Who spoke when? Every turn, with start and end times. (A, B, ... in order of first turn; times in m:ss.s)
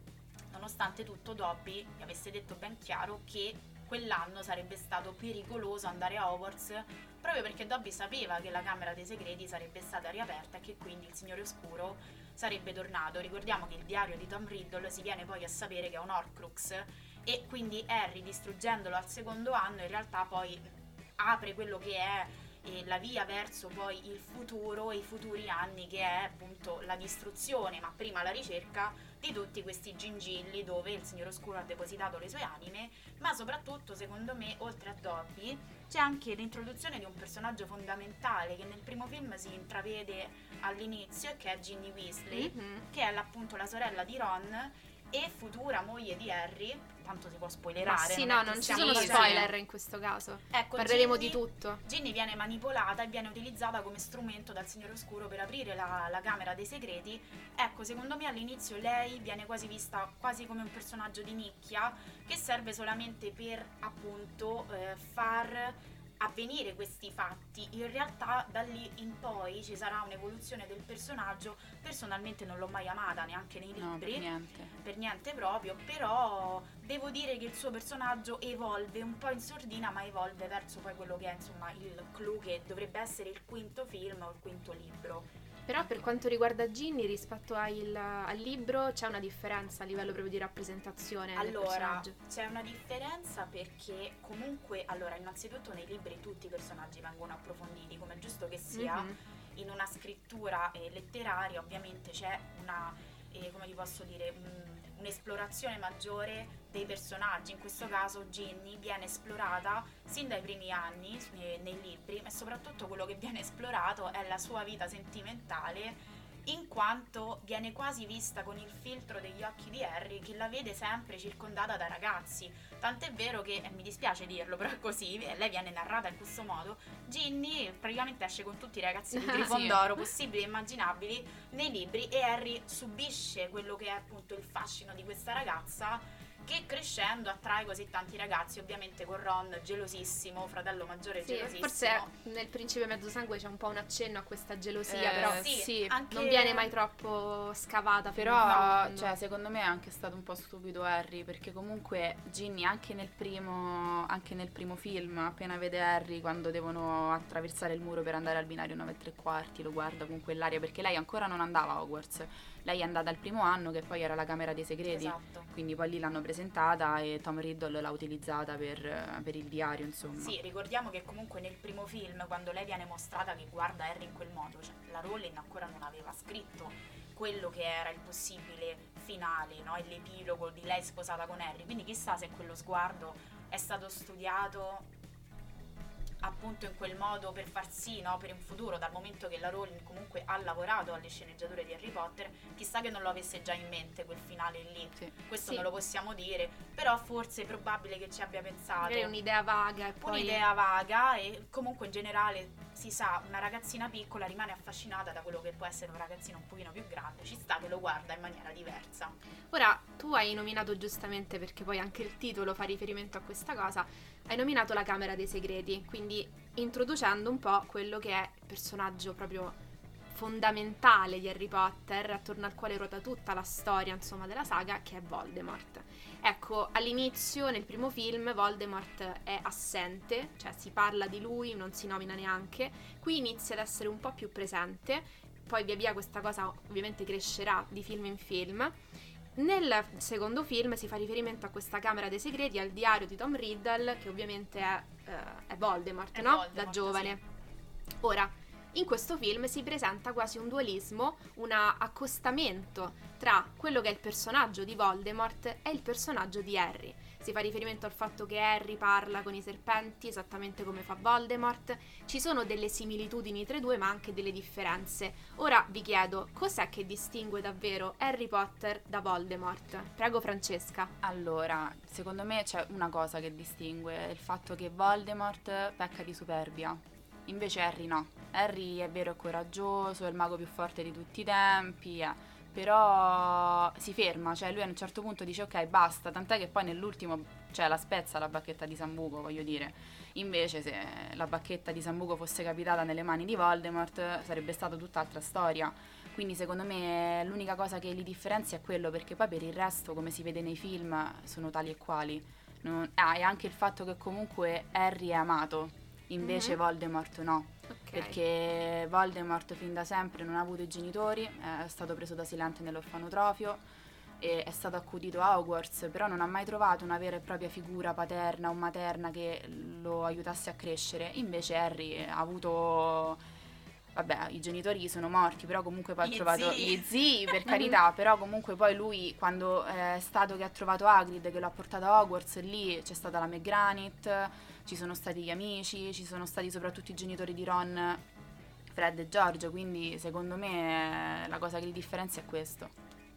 0:00.5-0:49.5 A
0:42.3-0:42.8 B
0:47.8-0:51.8 B
0:48.7-0:49.5 C
0:50.5-1:14.3 A
1:13.8-1:14.7 C
1:14.8-1:25.3 A
1:25.7-1:32.2 B
1:31.4-2:22.1 A
1:38.7-1:39.2 B
2:09.2-2:09.5 B
2:09.4-2:09.8 C
2:21.2-2:29.1 B
2:24.9-2:25.5 C
2:25.0-2:26.7 A
2:28.2-2:50.4 C
2:44.9-2:45.5 A
2:50.2-3:04.9 A
3:06.2-3:19.1 A
3:18.8-3:20.4 B
3:20.0-3:29.2 A
3:29.5-3:39.6 B
3:40.1-3:58.8 B
3:59.4-4:07.2 B
4:06.1-4:07.2 A
4:08.0-4:30.9 B
4:31.0-5:13.6 C
5:06.2-5:06.6 B
5:07.7-5:08.2 B
5:14.2-5:23.2 C
5:24.0-5:38.0 C
5:26.0-5:27.4 A
5:38.7-5:42.7 C